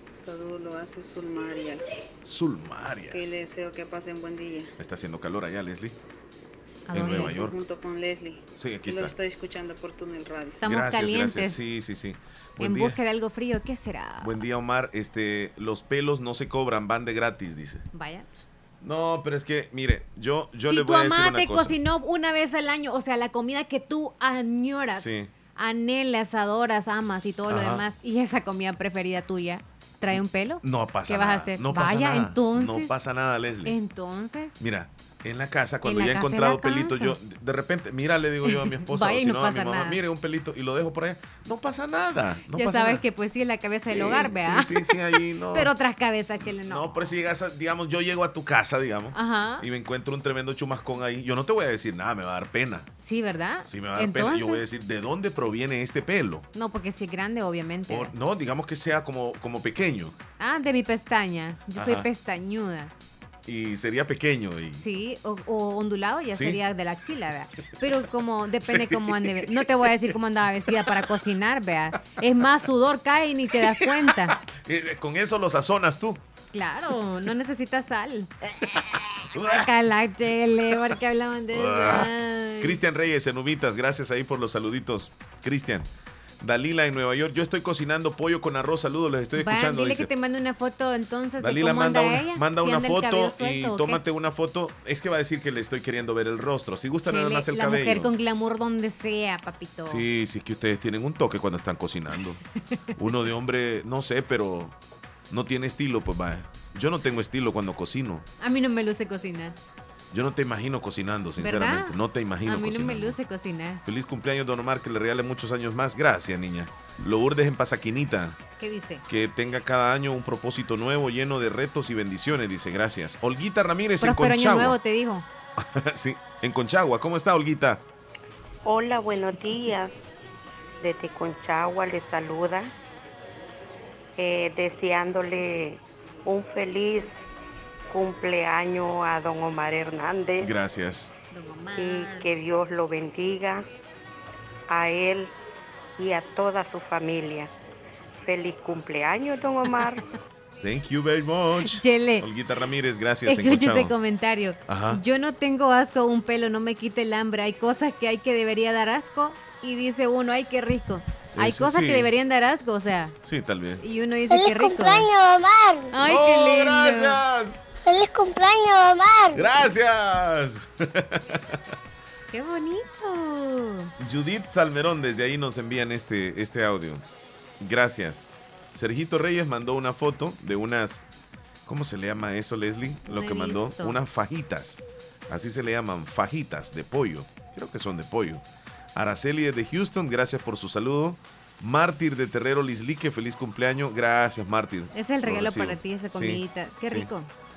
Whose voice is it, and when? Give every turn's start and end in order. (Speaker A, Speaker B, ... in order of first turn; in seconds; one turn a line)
Speaker A: 0.1-1.9
Speaker B: 2.2-3.4
Speaker A: 3.1-4.7
Speaker B: 4.8-6.0
Speaker C: 6.9-7.4
Speaker B: 6.9-7.6
Speaker A: 7.2-10.6
Speaker B: 8.6-9.2
Speaker C: 10.6-11.7
Speaker B: 10.6-13.0
Speaker C: 12.6-14.3
Speaker B: 14.2-17.8
Speaker C: 17.9-18.5
Speaker B: 18.8-21.8
Speaker C: 20.6-32.9
Speaker B: 24.9-25.3
Speaker B: 27.5-27.8
Speaker B: 30.1-33.8
Speaker C: 33.6-34.6
Speaker B: 34.6-43.0
Speaker C: 35.8-37.2
Speaker C: 38.5-40.0
Speaker C: 42.5-47.1
Speaker B: 43.8-45.7
Speaker B: 46.6-52.9
Speaker C: 49.1-49.6
Speaker C: 53.0-54.6
Speaker B: 53.7-56.5
Speaker C: 56.5-58.1
Speaker B: 57.9-60.1
Speaker C: 60.4-62.9
Speaker B: 61.7-62.0
Speaker B: 63.5-64.8
Speaker C: 64.8-74.4
Speaker B: 66.3-66.6
Speaker B: 68.6-70.1
Speaker B: 70.8-71.1
Speaker B: 73.6-76.2
Speaker C: 76.5-82.8
Speaker B: 79.3-79.7
Speaker B: 81.5-85.9
Speaker B: 86.4-90.1
Speaker C: 89.4-94.0
Speaker B: 91.4-98.1
Speaker C: 97.0-100.0
Speaker B: 99.8-102.4
Speaker B: 103.0-104.7
Speaker B: 105.3-108.2
Speaker C: 108.4-109.5
Speaker B: 110.1-113.2
Speaker C: 111.4-111.9
Speaker C: 112.5-113.8
Speaker B: 113.8-118.4
Speaker C: 118.6-119.0
Speaker B: 119.1-124.8
Speaker C: 124.0-125.2
Speaker B: 125.6-127.8
Speaker D: 128.8-129.9
Speaker D: 130.8-132.7
Speaker D: 134.2-135.8
Speaker D: 136.3-137.2
Speaker D: 137.9-140.4
Speaker B: 140.4-141.1
Speaker C: 141.3-142.3
Speaker D: 141.8-143.6
Speaker D: 144.8-145.3
Speaker D: 146.0-147.5
Speaker D: 148.2-149.9
Speaker B: 150.6-153.9
Speaker C: 151.6-152.2
Speaker C: 153.2-163.2
Speaker B: 154.7-155.0
Speaker B: 161.3-162.1
Speaker B: 163.2-163.8
Speaker C: 163.8-165.1
Speaker E: 164.3-165.9
Speaker C: 165.9-167.2
Speaker B: 166.0-167.6
Speaker E: 167.8-169.5
Speaker B: 169.3-171.6
Speaker C: 172.3-173.9
Speaker B: 174.0-177.0
Speaker B: 177.6-181.0
Speaker B: 181.7-188.4
Speaker C: 183.1-184.0
Speaker B: 188.9-197.1
Speaker C: 194.9-197.3